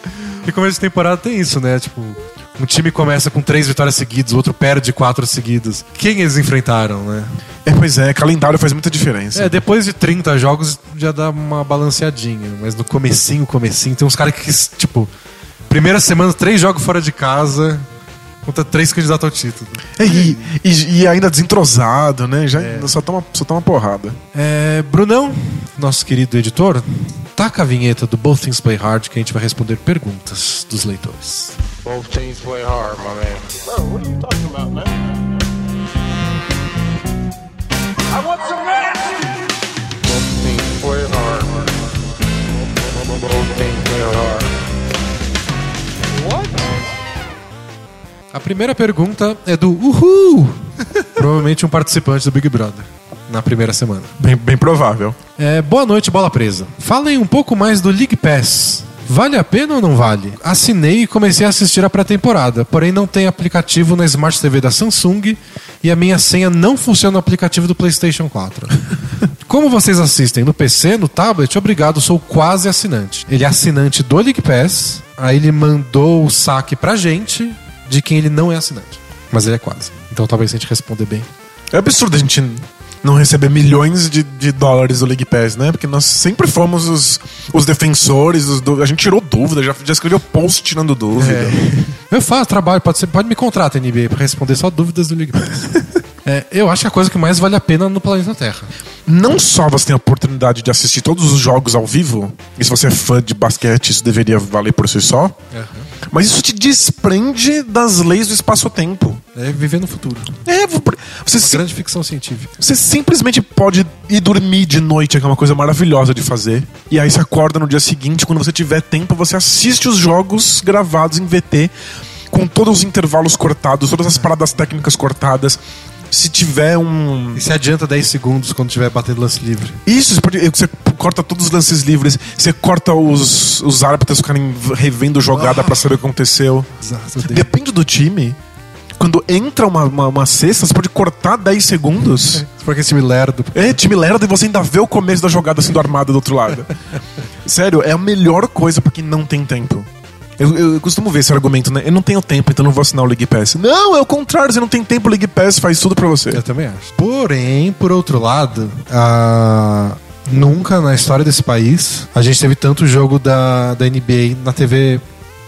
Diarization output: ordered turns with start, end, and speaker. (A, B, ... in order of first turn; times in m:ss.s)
0:00.4-0:07.3 A
0:07.6-0:09.6 B
0:09.3-0:15.1 A
0:15.7-0:17.9 A
0:18.4-0:20.4 A
0:20.0-0:24.2 B
0:22.6-0:22.9 A
0:24.3-0:31.6 A
0:31.8-0:35.3 C
0:38.1-0:39.0 C
0:40.0-0:42.0 C
0:42.6-0:44.5 C
0:46.2-0:46.5 C
0:48.3-0:54.1 A
0:54.2-0:55.2 B
0:55.4-1:08.8 A
1:09.4-1:21.3 A
1:21.7-1:31.6 B
1:31.1-1:38.7 A
1:39.1-1:45.4 B
1:45.5-1:45.9 A
1:46.1-1:49.2 B
1:49.3-1:50.4 A
1:50.4-1:51.6 B
1:51.3-1:52.6 A
1:52.6-2:01.7 B
2:02.3-2:05.6 B
2:06.1-2:07.4 B
2:07.3-2:09.8 A
2:09.9-2:16.7 B
2:15.3-2:15.8 A
2:16.8-2:17.5 A
2:17.2-2:18.4 B
2:19.0-2:22.4 B
2:22.4-2:23.8 A
2:23.5-2:26.7 B
2:27.4-2:36.4 B
2:36.3-2:45.0 A